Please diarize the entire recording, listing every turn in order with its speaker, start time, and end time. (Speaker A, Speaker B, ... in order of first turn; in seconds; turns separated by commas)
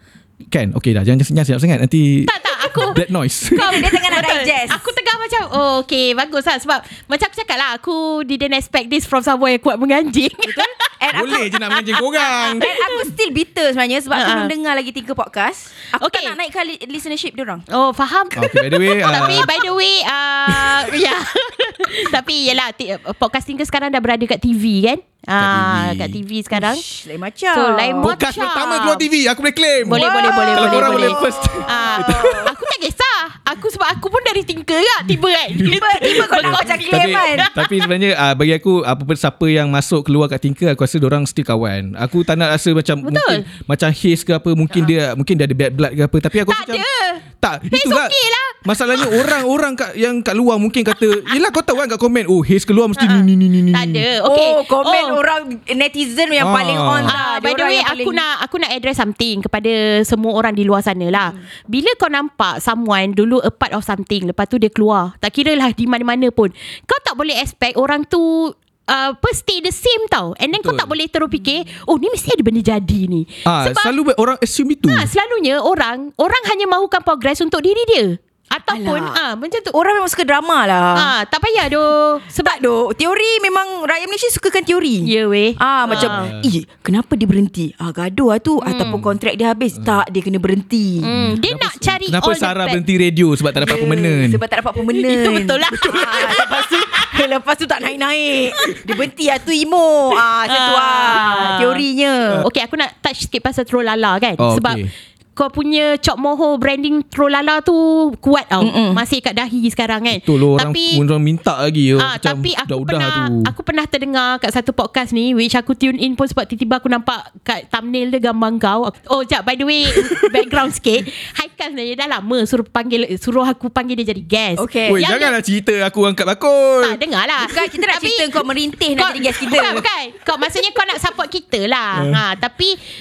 Speaker A: 0.5-3.8, Speaker B: 2.2-10.7, Speaker C: 3.5-4.9, Speaker C: 10.4-11.6, Speaker A: 11.1-12.7, Speaker B: 11.7-12.6, Speaker C: 12.6-17.6, Speaker B: 14.1-14.5, Speaker B: 16.0-16.3, Speaker B: 17.7-26.8, Speaker A: 18.3-19.5, Speaker A: 20.5-20.8, Speaker A: 25.4-26.2, Speaker C: 26.5-28.1, Speaker B: 27.5-29.1, Speaker A: 28.0-32.5, Speaker B: 29.8-37.8, Speaker C: 29.9-32.5, Speaker C: 35.6-37.5, Speaker A: 36.4-46.8, Speaker B: 43.0-43.4, Speaker B: 46.5-49.4, Speaker A: 47.4-54.0, Speaker B: 53.0-55.2, Speaker C: 54.2-58.2, Speaker A: 56.4-57.2, Speaker B: 57.0-73.9, Speaker A: 70.5-70.9, Speaker A: 73.4-75.1, Speaker B: 74.9-79.8, Speaker C: 78.7-79.2, Speaker C: 79.7-81.1, Speaker B: 80.9-82.6, Speaker C: 82.4-91.1, Speaker B: 85.0-86.3, Speaker A: 85.9-86.5, Speaker B: 88.6-89.0, Speaker B: 91.0-92.8, Speaker A: 91.1-94.4, Speaker C: 93.5-102.4, Speaker B: 94.9-97.2, Speaker A: 95.9-96.2, Speaker B: 100.5-101.8, Speaker B: 102.4-104.8, Speaker A: 104.4-104.9, Speaker B: 105.3-111.0, Speaker C: 108.6-109.0, Speaker A: 110.1-113.5, Speaker B: 112.0-125.3, Speaker A: 119.9-120.3, Speaker C: 124.6-125.0, Speaker A: 124.8-127.0, Speaker B: 126.8-128.3, Speaker C: 127.4-129.8, Speaker B: 129.0-132.8, Speaker A: 131.9-132.2